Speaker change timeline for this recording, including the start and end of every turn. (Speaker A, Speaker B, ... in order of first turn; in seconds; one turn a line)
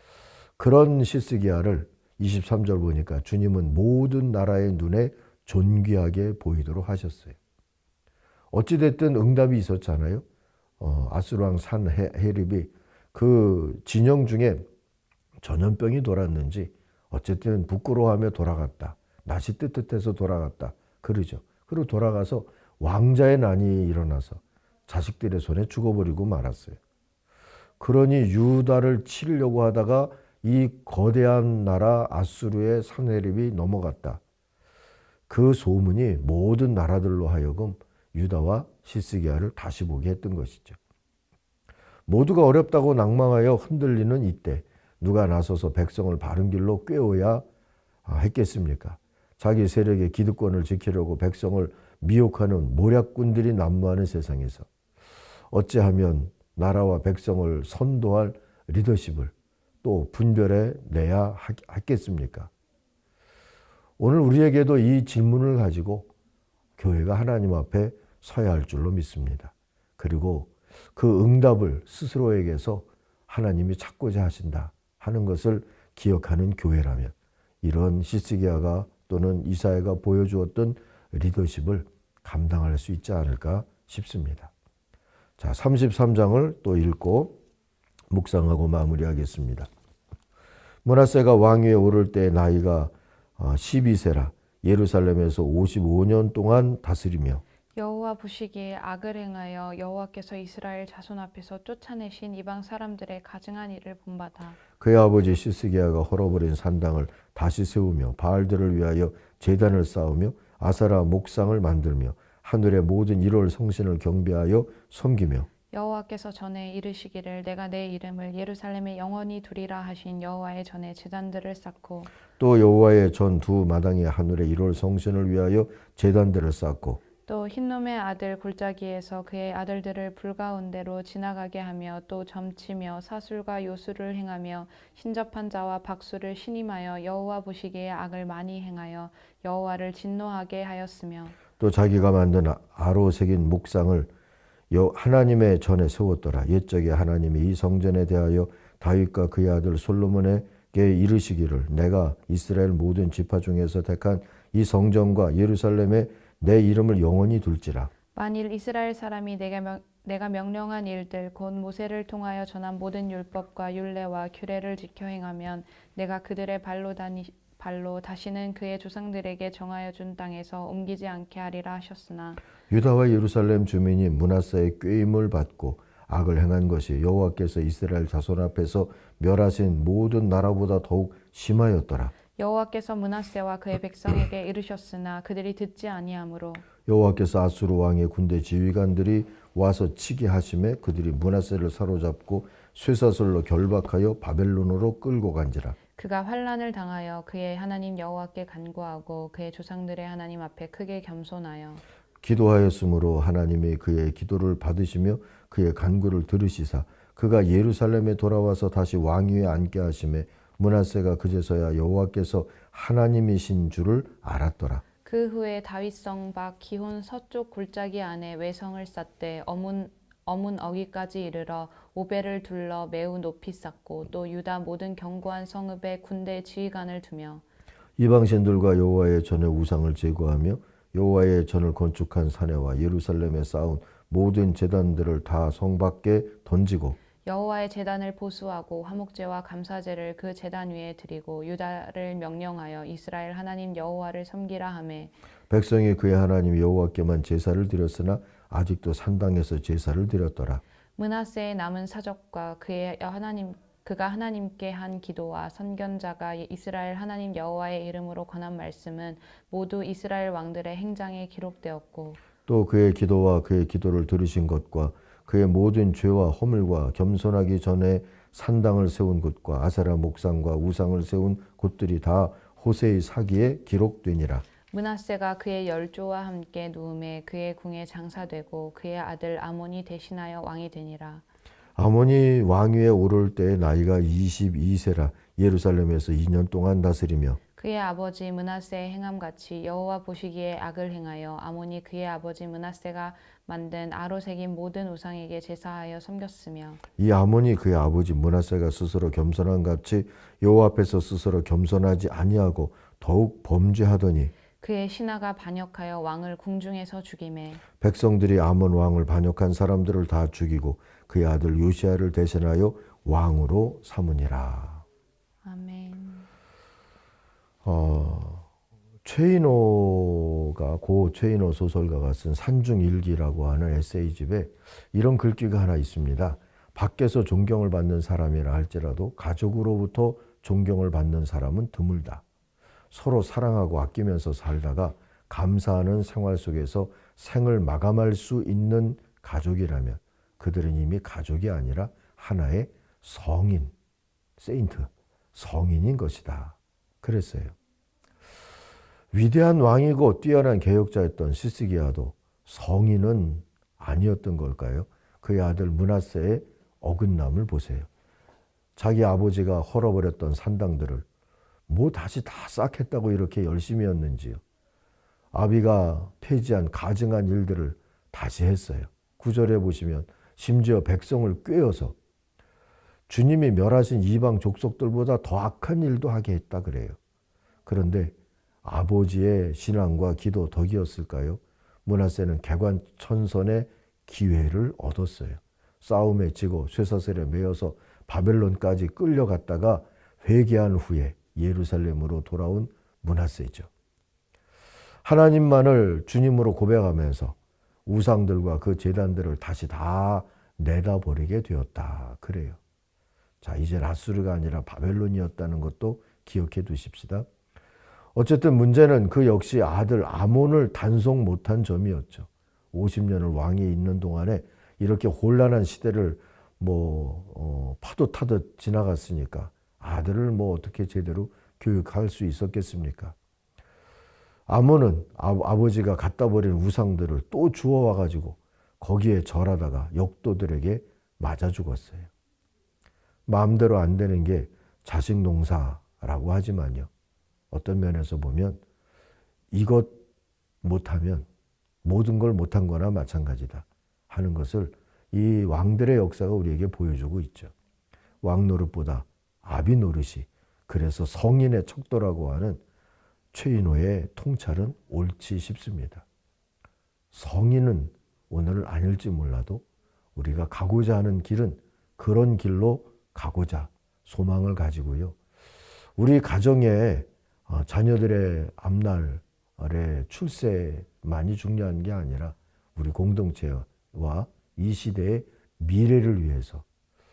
Speaker A: 0.6-7.4
Speaker A: 8.5-10.2
Speaker A: 10.8-14.7
Speaker A: 15.4-26.8
Speaker A: 27.8-34.2
Speaker A: 35.3-40.8
Speaker A: 42.1-47.4
Speaker A: 48.0-54.7
Speaker A: 55.5-62.5
Speaker A: 64.0-66.1
Speaker A: 66.8-84.5
Speaker A: 85.4-87.4
Speaker A: 88.1-89.7
Speaker A: 90.8-97.4
Speaker B: 97.8-104.6
Speaker A: 104.8-115.5
Speaker B: 115.7-122.1
Speaker A: 122.4-127.0
Speaker B: 127.3-141.4
Speaker A: 141.6-144.1
Speaker A: 144.7-157.9
Speaker B: 158.2-172.4
Speaker A: 172.7-182.1
Speaker B: 182.4-186.7
Speaker A: 186.9-195.8
Speaker B: 196.0-201.8
Speaker A: 202.2-214.8
Speaker B: 215.1-227.4
Speaker A: 228.0-237.0
Speaker B: 237.2-245.1
Speaker A: 245.5-250.6
Speaker B: 251.0-262.2
Speaker A: 262.5-274.4
Speaker B: 274.7-281.2
Speaker A: 281.8-287.4
Speaker B: 287.6-296.8
Speaker A: 297.0-304.3
Speaker B: 304.6-307.6
Speaker A: 307.8-314.9
Speaker B: 315.4-316.3
Speaker A: 317.6-318.5
Speaker A: 319.1-332.2
Speaker A: 332.9-343.7
Speaker A: 344.4-347.6
Speaker A: 349.1-357.9
Speaker A: 358.8-361.1
Speaker A: 361.7-364.4
Speaker A: 365.3-371.9
Speaker A: 373.1-377.0
Speaker A: 377.7-393.7
Speaker A: 395.0-402.6
Speaker A: 403.4-407.3
Speaker A: 408.1-423.1
Speaker A: 424.5-432.1
Speaker A: 433.3-436.9
Speaker A: 437.5-438.6
Speaker A: 439.5-440.0
Speaker A: 440.6-441.3
Speaker A: 441.8-447.5
Speaker A: 448.2-452.6
Speaker A: 453.3-456.1
Speaker A: 457.1-459.6
Speaker A: 460.2-465.2
Speaker A: 466.0-476.6